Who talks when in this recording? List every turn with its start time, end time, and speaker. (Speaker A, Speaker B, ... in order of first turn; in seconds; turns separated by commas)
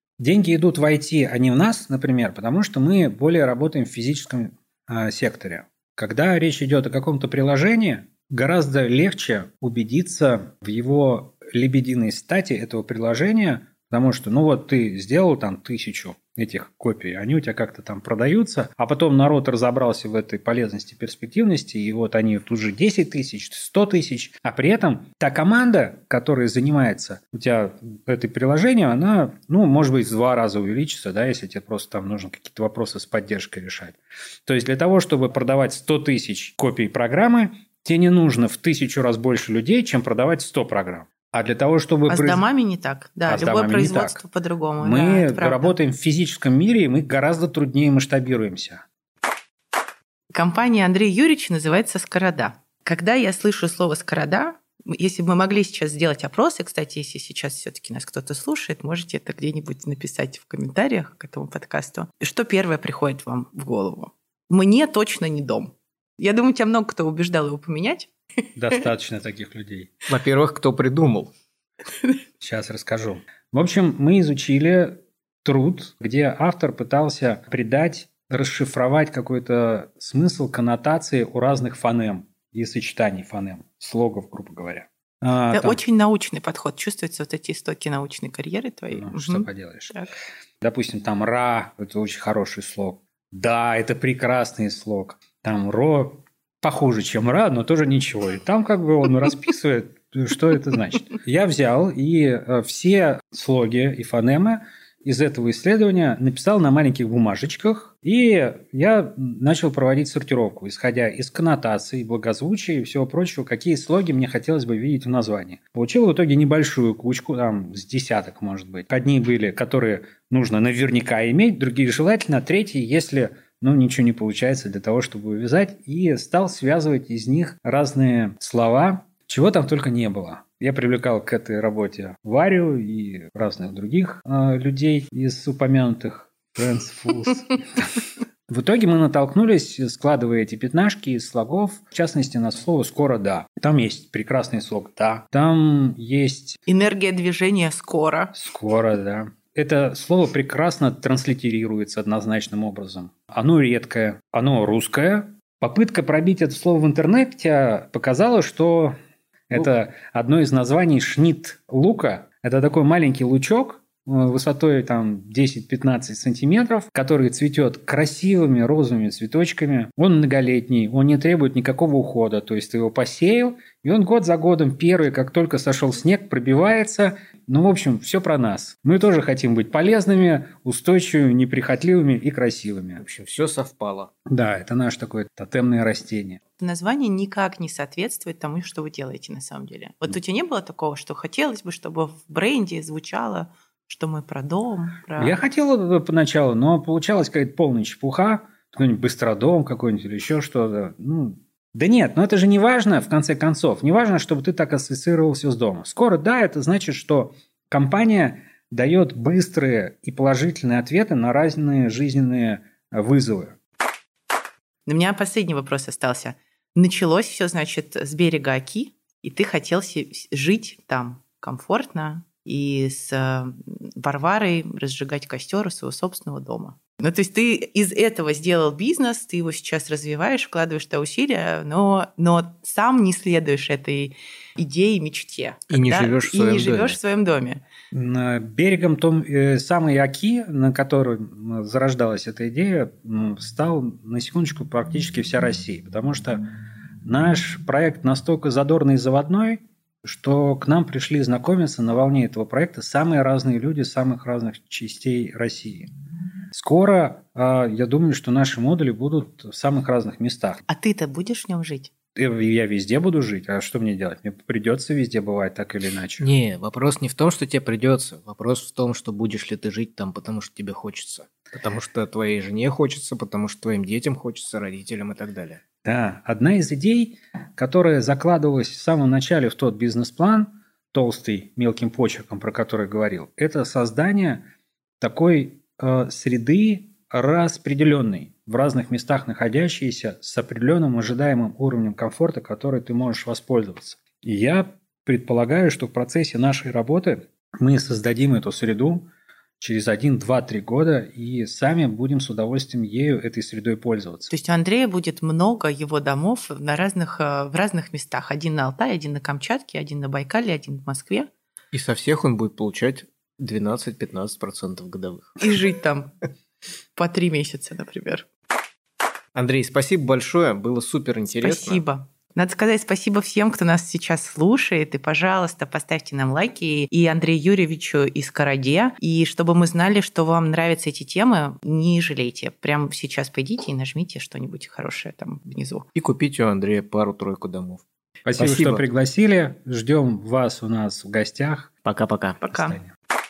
Speaker A: 0.2-42.4, Speaker B: 42.1-45.7, Speaker A: 43.3-44.2, Speaker A: 44.8-48.8, Speaker B: 50.3-68.1, Speaker A: 68.5-70.0, Speaker C: 70.1-71.3, Speaker A: 72.4-85.8, Speaker B: 85.5-90.1, Speaker A: 88.9-90.0, Speaker A: 90.6-146.6, Speaker B: 146.7-148.3, Speaker A: 148.3-158.9, Speaker A: 159.5-183.0, Speaker C: 183.0-184.1, Speaker A: 184.3-186.4, Speaker B: 186.6-195.3, Speaker A: 195.2-213.6, Speaker B: 214.8-237.6, Speaker C: 235.7-237.0, Speaker A: 237.9-246.4, Speaker A: 247.0-255.9, Speaker A: 256.5-260.6, Speaker B: 260.7-261.9, Speaker A: 262.1-266.3, Speaker C: 266.2-275.6, Speaker A: 275.8-284.4, Speaker A: 285.0-299.1, Speaker A: 299.6-304.3, Speaker B: 304.3-311.3, Speaker C: 311.7-315.5, Speaker B: 315.4-316.1, Speaker B: 316.9-318.3, Speaker C: 319.3-321.8, Speaker B: 321.3-335.9, Speaker C: 335.9-337.8, Speaker A: 338.2-341.7, Speaker C: 338.4-338.8, Speaker C: 341.8-342.4, Speaker B: 342.4-342.8, Speaker A: 342.5-342.9